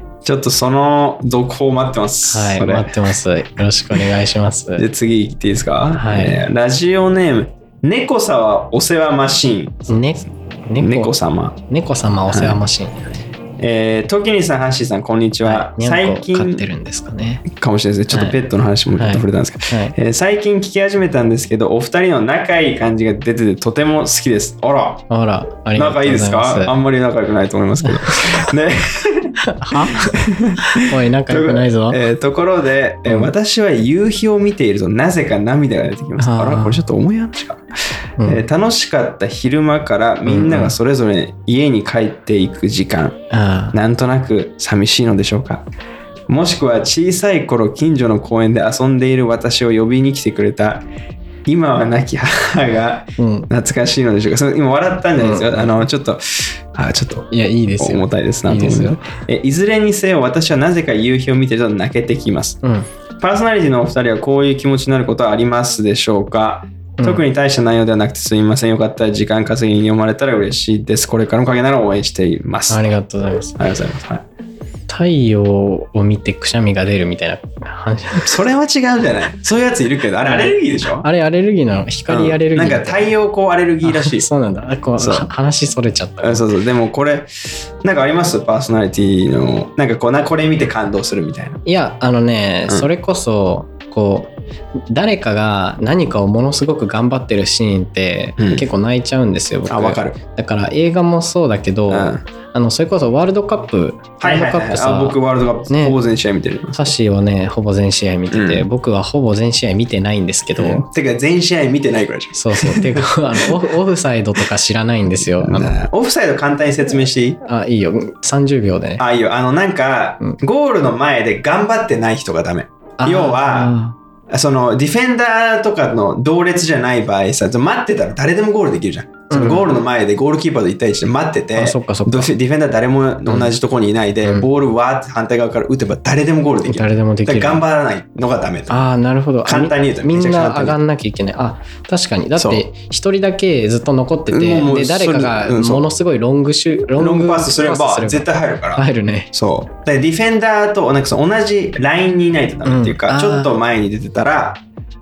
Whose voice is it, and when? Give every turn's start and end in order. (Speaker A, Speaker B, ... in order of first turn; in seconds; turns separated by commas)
Speaker A: 0.2-3.1, Speaker B: 2.3-4.9, Speaker A: 4.8-10.0, Speaker B: 5.9-6.4, Speaker B: 9.9-11.1, Speaker A: 10.8-11.6, Speaker B: 11.7-13.0, Speaker A: 12.3-12.6, Speaker A: 13.6-16.6, Speaker B: 15.4-17.5, Speaker A: 17.5-25.1, Speaker B: 18.1-18.4, Speaker B: 19.0-19.9, Speaker B: 25.1-26.7, Speaker A: 25.7-37.6, Speaker B: 27.8-28.3, Speaker B: 29.4-32.0, Speaker B: 36.2-36.8, Speaker B: 38.2-38.4, Speaker A: 38.2-43.2, Speaker B: 40.2-40.7, Speaker B: 43.3-43.8, Speaker A: 43.7-45.7, Speaker A: 46.3-50.8, Speaker A: 51.5-62.6, Speaker B: 53.2-53.5, Speaker B: 55.2-55.9, Speaker B: 57.3-59.0, Speaker A: 63.2-72.9, Speaker B: 72.7-73.6, Speaker A: 73.6-74.2, Speaker B: 74.9-78.3, Speaker A: 78.2-81.1, Speaker B: 80.2-83.1, Speaker A: 82.1-84.3, Speaker B: 83.8-86.5, Speaker A: 85.0-85.3, Speaker A: 86.2-87.3, Speaker A: 87.8-91.6, Speaker B: 91.6-94.3, Speaker B: 94.9-105.2, Speaker A: 98.4-98.6, Speaker A: 99.7-100.2, Speaker A: 101.9-102.2, Speaker A: 104.2-106.9, Speaker B: 105.7-106.0, Speaker B: 106.7-110.9, Speaker A: 108.3-108.7, Speaker A: 110.5-113.7, Speaker B: 112.3-115.8, Speaker A: 115.3-117.4, Speaker B: 117.4-119.0, Speaker A: 119.0-123.7, Speaker B: 123.0-124.0, Speaker A: 124.3-138.8, Speaker B: 129.3-129.7, Speaker B: 131.5-132.3, Speaker B: 133.3-133.5, Speaker B: 136.6-137.6, Speaker B: 138.7-149.3, Speaker A: 139.4-140.8, Speaker A: 142.4-142.6, Speaker A: 144.3-145.8, Speaker A: 146.9-154.6, Speaker B: 152.6-153.6